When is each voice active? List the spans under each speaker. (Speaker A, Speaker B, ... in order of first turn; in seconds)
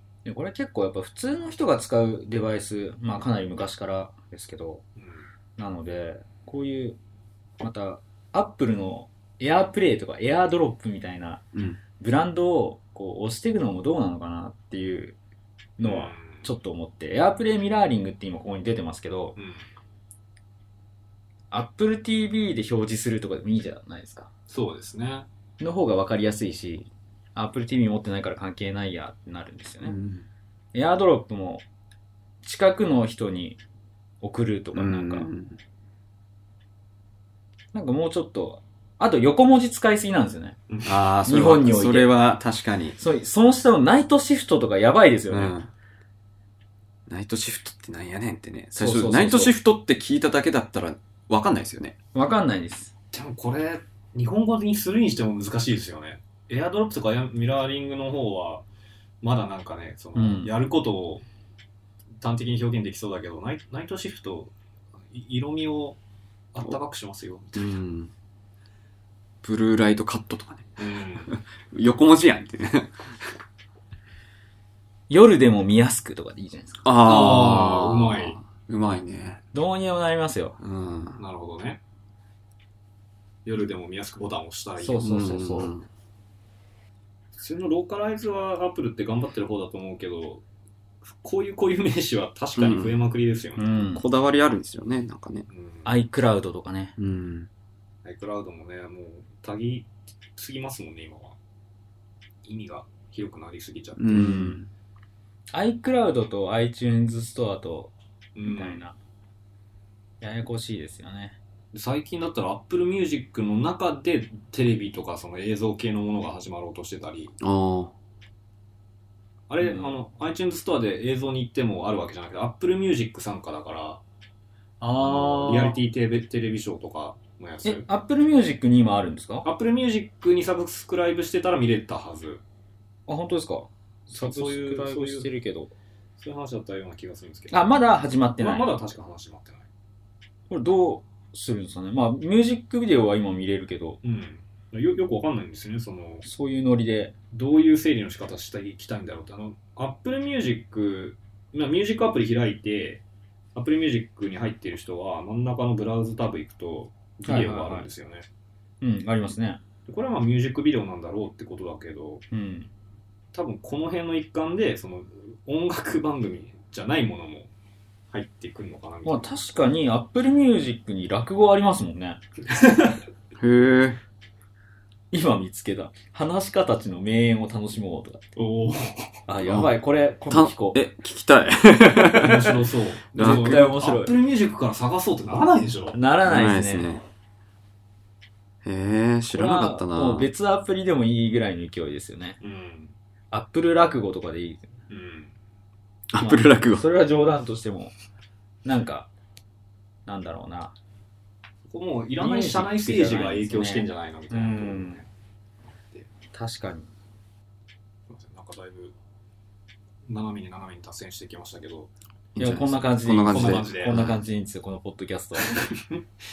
Speaker A: 0.2-4.8, 5.6-7.0, 7.6-11.4, 12.0-15.2, 15.8-19.4, 21.5-24.3, 25.6-30.0, 30.7-31.6, 32.4-33.6, 34.2-35.3, 37.7-40.6, 41.2-42.1, 43.0-45.5, 48.7-49.5, 52.1-52.9, 60.1-60.5, 75.1-76.8, 79.5-80.5, 84.8-85.7, 93.6-94.0, 95.8-96.9, 104.1-104.6, 105.5-107.9, 108.4-109.0, 110.2-111.4, 119.6-119.9, 124.8-125.8, 127.6-129.4, 133.1-135.7, 137.5-138.7, 140.5-144.0, 146.2-147.1, 157.2-157.9, 158.8-159.6, 162.3-162.7, 169.0-172.2, 175.1-178.2, 179.3-180.8, 183.2-184.1, 185.9-186.9, 189.3-192.4, 193.3-194.7, 196.2-197.9, 198.6-199.1, 200.1-200.7, 202.2-205.0, 206.3-206.9, 212.4-215.6
Speaker B: 5.0-5.2, 15.8-16.4, 19.4-19.6, 24.5-25.3, 40.7-41.0, 53.1-58.6, 59.2-61.2, 62.2-64.5, 65.1-66.0, 66.5-67.8, 70.8-71.3, 76.9-78.4, 81.2-81.8, 83.4-85.1, 87.3-90.4, 91.1-93.8, 95.5-95.9, 98.0-101.4, 102.4-104.4, 108.3-108.8, 111.7-117.3, 119.5-124.0, 125.0-127.8, 129.4-132.4, 134.1-135.3, 136.2-137.7, 138.4-139.7, 144.0-146.2, 147.3-153.0, 153.5-158.2, 159.9-162.2, 163.3-167.5, 168.1-169.4, 172.5-173.0, 178.3-179.2, 182.0-186.0, 192.4-192.9, 194.9-195.3, 201.7-205.1, 208.1-208.9, 210.1-211.9, 213.3-214.0, 215.5-216.0
Speaker C: 11.5-11.8, 29.8-30.2, 34.7-35.6, 40.8-43.0, 45.3-45.7, 47.1-52.0, 67.5-68.1, 69.4-70.8, 71.3-73.3, 76.8-79.4, 80.6-81.2, 85.0-85.9, 92.5-93.0, 93.9-95.5, 97.0-97.5, 104.0-104.7, 117.4-117.9, 173.4-174.0, 179.4-179.7, 180.3-183.7, 186.2-187.0, 188.6-190.3, 196.1-196.8, 212.3-214.2